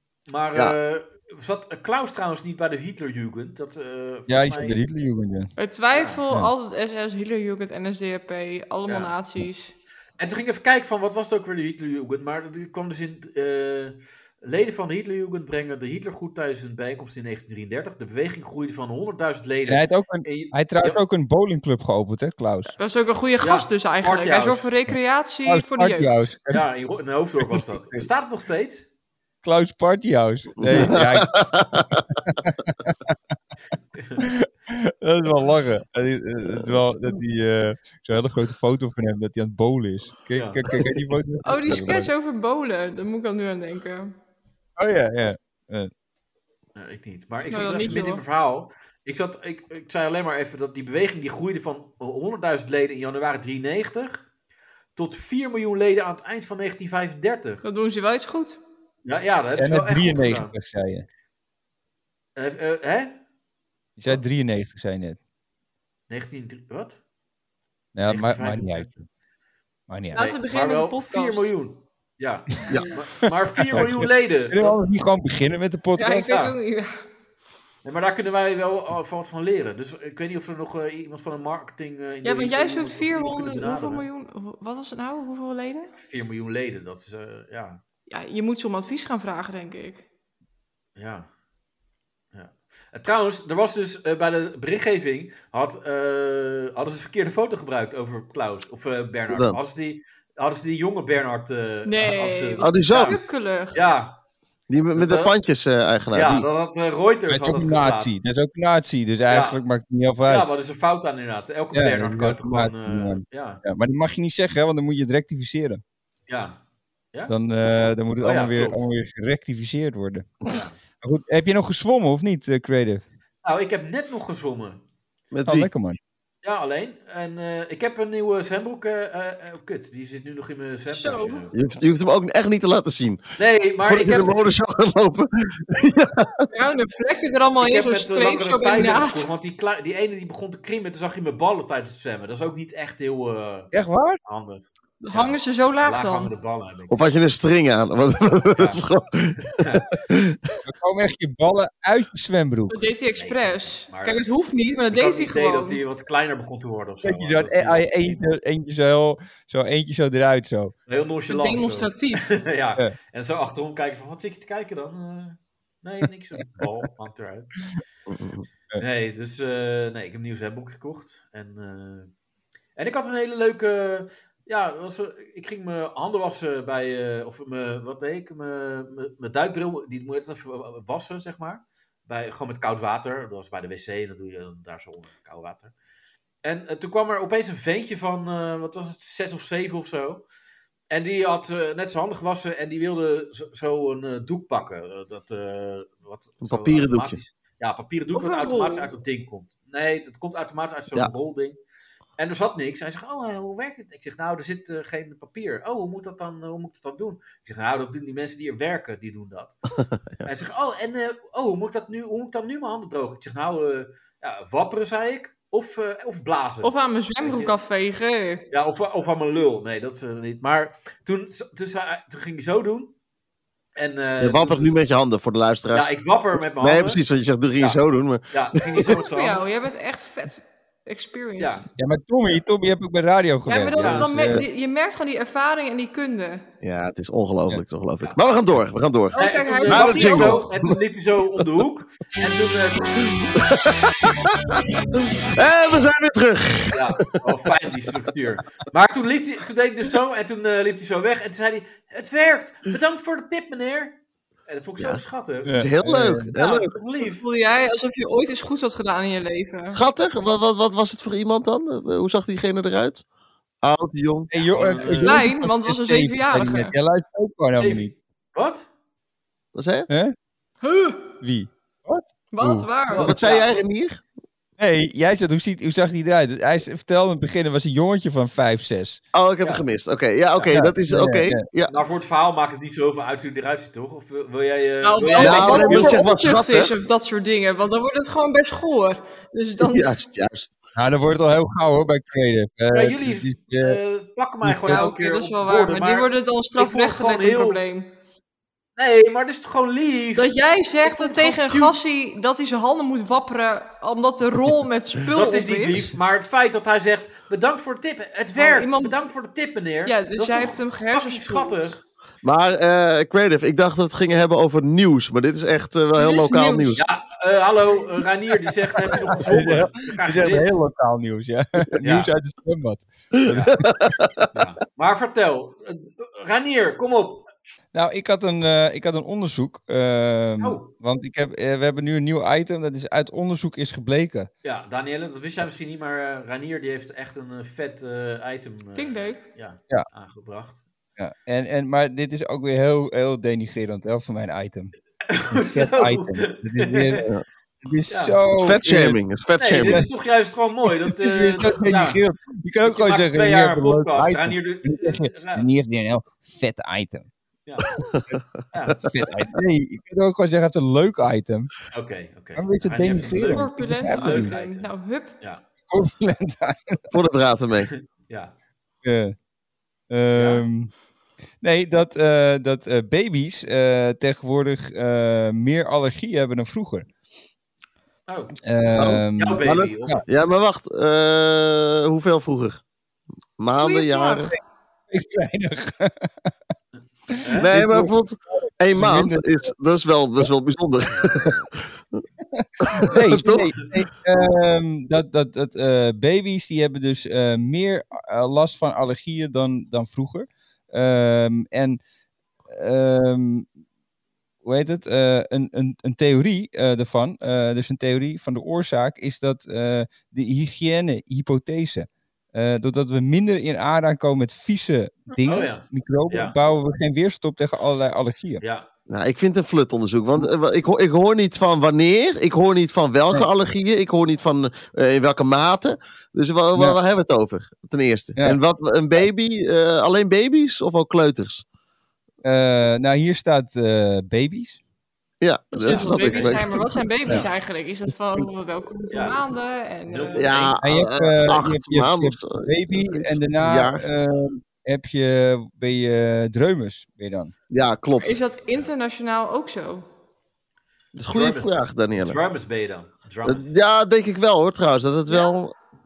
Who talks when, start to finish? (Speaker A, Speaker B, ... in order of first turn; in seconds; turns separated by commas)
Speaker A: 0.3-4.8, Speaker B: 4.3-5.5, Speaker C: 5.6-9.7, Speaker A: 5.9-6.2, Speaker A: 8.9-9.1, Speaker A: 10.2-21.0, Speaker B: 19.7-22.7, Speaker C: 22.8-26.3, Speaker A: 23.4-24.7, Speaker B: 25.4-26.7, Speaker A: 26.5-28.9, Speaker B: 27.4-28.1, Speaker B: 29.4-31.3, Speaker D: 30.6-32.0, Speaker B: 32.2-33.1, Speaker A: 33.9-34.2, Speaker B: 34.2-42.1, Speaker A: 40.3-40.6, Speaker C: 41.4-44.1, Speaker B: 44.8-45.9, Speaker A: 46.8-54.3, Speaker C: 47.5-48.2, Speaker A: 55.0-57.6, Speaker C: 57.6-58.6, Speaker A: 59.0-60.5, Speaker B: 59.5-61.0, Speaker A: 62.4-63.2, Speaker B: 64.0-65.2, Speaker A: 66.1-67.0, Speaker B: 67.9-69.0, Speaker A: 68.0-68.9, Speaker B: 69.9-70.3, Speaker C: 70.1-71.5, Speaker A: 70.2-74.8, Speaker B: 73.7-76.3, Speaker C: 76.0-77.0, Speaker A: 76.3-76.5, Speaker A: 77.8-84.1, Speaker C: 82.2-85.9, Speaker A: 86.0-87.8, Speaker C: 88.1-90.0, Speaker A: 91.0-91.3, Speaker A: 92.3-103.2, Speaker D: 99.3-99.6, Speaker C: 101.8-103.8, Speaker D: 102.6-103.2, Speaker A: 103.7-104.2, Speaker D: 104.7-106.5, Speaker A: 104.9-105.3, Speaker A: 106.1-108.2, Speaker B: 107.3-110.5, Speaker A: 109.3-109.6, Speaker A: 110.2-113.6, Speaker B: 111.7-115.8, Speaker A: 116.3-116.6, Speaker B: 117.3-123.0, Speaker A: 118.2-118.8, Speaker A: 120.5-120.8, Speaker A: 123.4-124.8, Speaker D: 125.3-125.7, Speaker B: 125.5-126.0, Speaker A: 126.4-131.8, Speaker C: 130.9-131.4, Speaker D: 131.5-133.2, Speaker A: 133.4-134.4, Speaker D: 133.8-136.5, Speaker C: 136.5-139.3, Speaker A: 137.6-143.7, Speaker B: 143.7-144.2, Speaker A: 144.2-147.0, Speaker C: 145.0-146.3, Speaker D: 146.9-149.4, Speaker A: 148.5-148.8, Speaker A: 149.4-149.8, Speaker D: 150.0-150.4, Speaker B: 150.6-152.8, Speaker C: 152.7-155.8, Speaker A: 153.1-154.2, Speaker A: 154.9-158.2, Speaker B: 157.0-160.7, Speaker A: 160.9-167.5, Speaker C: 161.3-162.3, Speaker D: 168.1-168.4, Speaker A: 168.8-172.1, Speaker A: 172.8-185.7, Speaker A: 186.4-190.2, Speaker A: 190.9-201.6, Speaker D: 196.4-197.2, Speaker C: 198.1-198.9, Speaker A: 202.2-209.6, Speaker D: 209.9-210.3, Speaker A: 210.2-217.5, Speaker C: 216.6-218.4, Speaker A: 218.5-222.9, Speaker A: 223.8-224.8, Speaker D: 224.2-225.9, Speaker A: 225.7-227.0, Speaker D: 226.6-228.9, Speaker A: 227.6-229.4, Speaker C: 228.8-231.7, Speaker A: 231.4-231.6, Speaker B: 231.8-234.5, Speaker C: 233.4-236.4, Speaker A: 233.8-234.4, Speaker D: 236.6-240.7, Speaker C: 239.1-240.4, Speaker A: 239.2-243.1, Speaker D: 243.1-243.8, Speaker D: 245.1-246.8, Speaker A: 246.7-253.9, Speaker A: 254.5-255.5, Speaker B: 255.4-256.3, Speaker D: 255.5-256.7, Speaker A: 256.3-257.2, Speaker C: 257.0-259.8, Speaker D: 259.7-263.0, Speaker D: 263.6-264.3, Speaker B: 264.3-267.9, Speaker A: 264.3-265.2, Speaker C: 265.0-266.7, Speaker A: 267.6-268.7, Speaker D: 269.5-269.9, Speaker B: 269.9-270.1, Speaker C: 270.6-271.1, Speaker B: 271.2-272.7, Speaker C: 272.3-273.1, Speaker A: 272.9-273.6, Speaker D: 272.9-274.0, Speaker B: 274.6-279.0, Speaker D: 279.1-281.8, Speaker B: 280.5-281.4, Speaker A: 281.7-286.1, Speaker C: 284.8-289.9, Speaker D: 285.2-286.7, Speaker D: 289.6-290.6, Speaker B: 290.8-293.8, Speaker A: 292.7-297.6, Speaker B: 294.4-294.9, Speaker C: 294.6-297.9, Speaker A: 298.8-300.3, Speaker C: 300.1-305.9, Speaker A: 300.8-301.7, Speaker A: 305.1-311.8, Speaker C: 308.4-308.9, Speaker C: 309.9-311.8, Speaker D: 312.2-316.8, Speaker C: 315.9-316.9, Speaker A: 316.8-320.5, Speaker B: 319.1-323.7, Speaker A: 321.8-322.1, Speaker D: 323.3-324.3, Speaker A: 323.3-323.6, Speaker A: 324.3-327.3, Speaker B: 327.7-334.3, Speaker A: 330.4-330.7, Speaker A: 334.4-340.6, Speaker C: 338.7-339.2, Speaker B: 341.0-344.7, Speaker A: 345.1-347.1, Speaker B: 345.3-347.1, Speaker B: 347.6-349.0, Speaker A: 347.9-348.2, Speaker D: 348.4-349.9, Speaker A: 349.4-352.0, Speaker B: 349.5-349.9, Speaker B: 350.9-357.1, Speaker A: 352.6-355.5, Speaker A: 358.5-359.0, Speaker B: 358.8-361.5, Speaker A: 361.7-364.7, Speaker B: 362.4-364.3, Speaker C: 363.3-365.1, Speaker B: 365.7-366.9, Speaker D: 366.9-367.7, Speaker A: 367.7-368.3, Speaker B: 368.8-369.1, Speaker B: 369.9-370.7, Speaker A: 370.1-370.4, Speaker B: 371.4-376.9, Speaker A: 378.1-378.4, Speaker B: 378.4-380.0, Speaker D: 378.8-382.6, Speaker A: 379.1-380.0, Speaker D: 383.4-384.3, Speaker C: 383.6-384.3, Speaker B: 384.9-386.3, Speaker A: 387.2-387.5, Speaker B: 387.3-389.5, Speaker D: 387.4-392.0, Speaker B: 392.3-401.8, Speaker D: 392.6-393.6, Speaker B: 402.5-403.5, Speaker B: 404.4-418.4, Speaker A: 415.2-416.3, Speaker A: 418.4-418.7, Speaker D: 418.9-431.4, Speaker B: 432.2-434.6, Speaker D: 435.2-436.8, Speaker C: 435.5-440.3, Speaker A: 438.9-439.2, Speaker A: 439.9-440.6, Speaker D: 440.1-443.8, Speaker B: 440.6-447.3, Speaker D: 447.5-448.2, Speaker C: 448.0-449.8, Speaker D: 450.9-452.2, Speaker A: 451.1-453.5, Speaker D: 453.2-455.5, Speaker C: 455.1-455.4